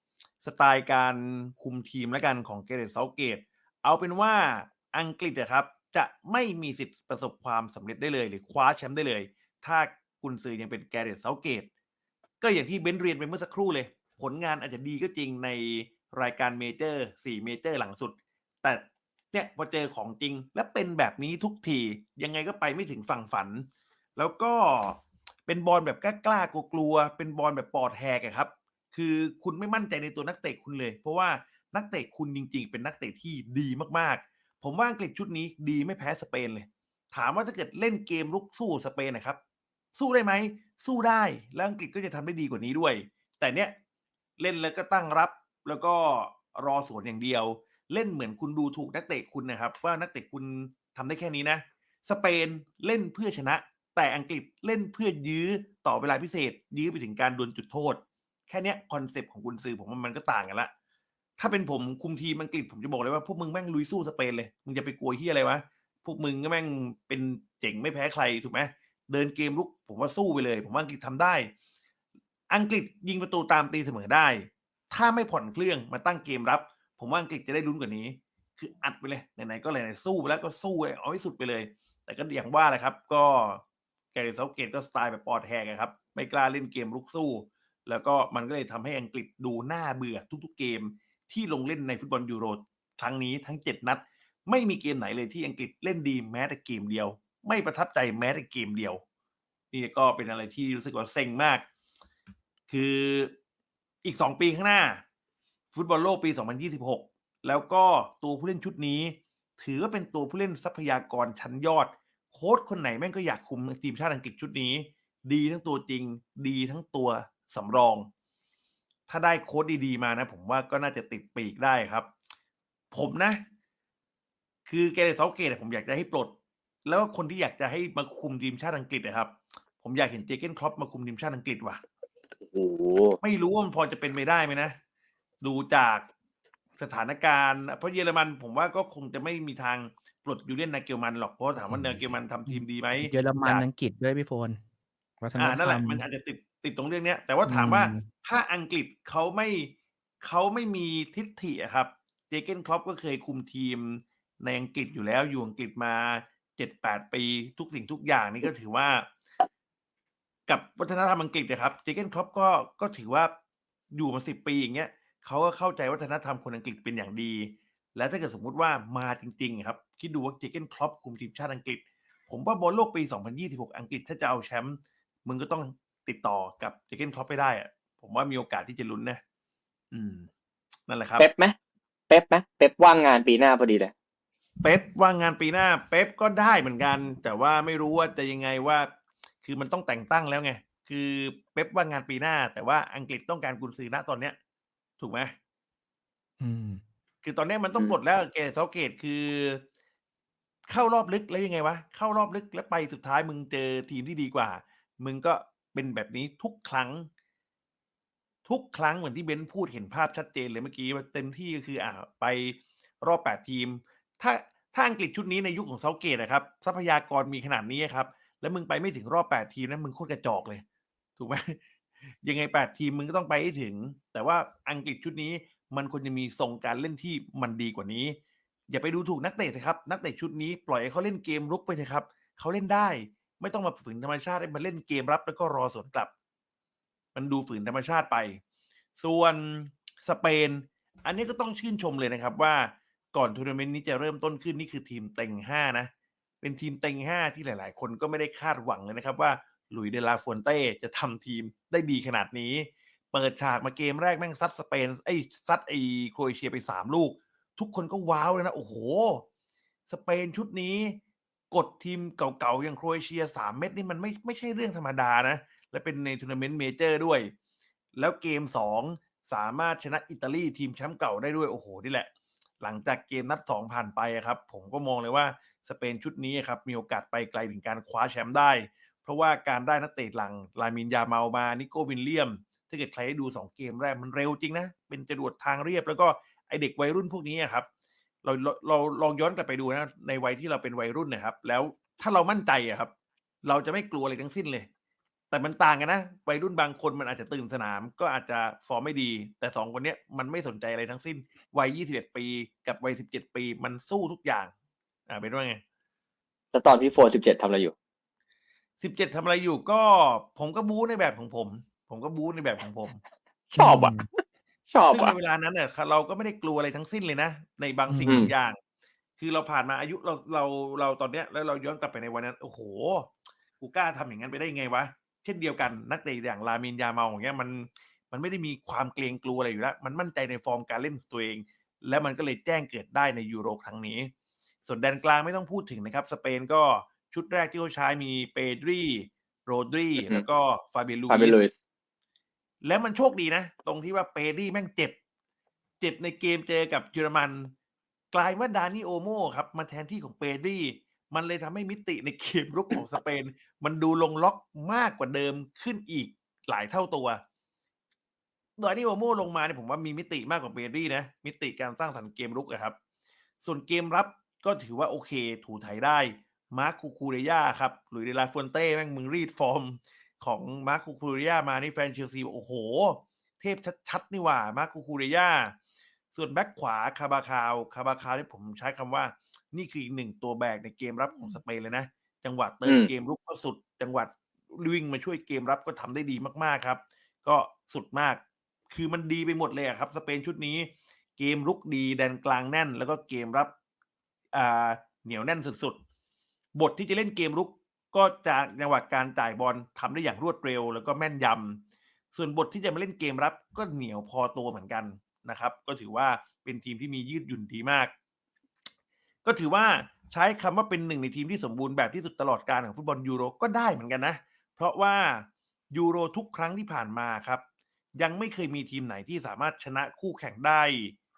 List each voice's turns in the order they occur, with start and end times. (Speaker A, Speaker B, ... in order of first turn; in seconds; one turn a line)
Speaker A: 0.4-11.7
Speaker A: 12.4-39.4
Speaker A: 40.0-43.7
Speaker A: 44.4-60.7
Speaker A: 61.4-71.5
Speaker A: 72.5-83.6
Speaker A: 84.1-99.0
Speaker A: 99.7-101.7
Speaker A: 102.7-103.3
Speaker A: 104.0-105.0
Speaker A: 105.7-118.1
Speaker A: 119.1-122.1
Speaker A: 122.9-123.4
Speaker A: 124.7-126.3
Speaker A: 126.8-131.8
Speaker B: 132.5-133.2
Speaker A: 133.2-134.8
Speaker A: 135.4-136.1
Speaker A: 136.8-143.7
Speaker C: 141.7-144.6
Speaker C: 145.2-146.1
Speaker A: 145.4-159.1
Speaker C: 147.5-148.1
Speaker A: 160.5-163.3
Speaker A: 163.9-179.2
Speaker A: 179.9-180.3
Speaker A: 180.9-181.3
Speaker B: 181.2-181.6
Speaker B: 182.1-183.9
Speaker A: 184.6-188.9
Speaker A: 189.4-194.4
Speaker A: 195.0-195.3
Speaker C: 196.4-196.8
Speaker A: 197.2-199.6
Speaker A: 200.7-207.1
Speaker A: 208.4-220.6
Speaker A: 221.2-221.6
Speaker A: 222.2-228.2
Speaker A: 228.7-236.1
Speaker A: 237.2-238.4
Speaker A: 239.0-245.9
Speaker A: 246.4-259.2
Speaker A: 259.9-261.0
Speaker A: 261.5-267.3
Speaker A: 268.0-272.1
Speaker A: 272.6-287.7
Speaker A: 288.2-292.9
Speaker A: 293.4-294.7
Speaker A: 295.3-304.5
Speaker A: 305.1-305.6
Speaker B: 306.5-307.7
Speaker A: 308.8-313.0
Speaker B: 313.5-313.9
Speaker C: 313.6-314.1
Speaker B: 314.7-315.1
Speaker A: 314.9-318.6
Speaker C: 317.9-318.3
Speaker B: 318.1-318.3
Speaker A: 319.2-334.1
Speaker A: 334.6-341.4
Speaker B: 340.0-340.2
Speaker B: 341.1-341.6
Speaker A: 342.6-345.0
Speaker A: 345.8-347.5
Speaker A: 348.1-357.2
Speaker A: 358.6-362.8
Speaker A: 363.4-375.6
Speaker A: 376.1-393.5
Speaker A: 394.3-395.8
Speaker A: 396.6-401.6
Speaker A: 402.1-407.9
Speaker A: 409.2-417.4
Speaker A: 418.0-421.0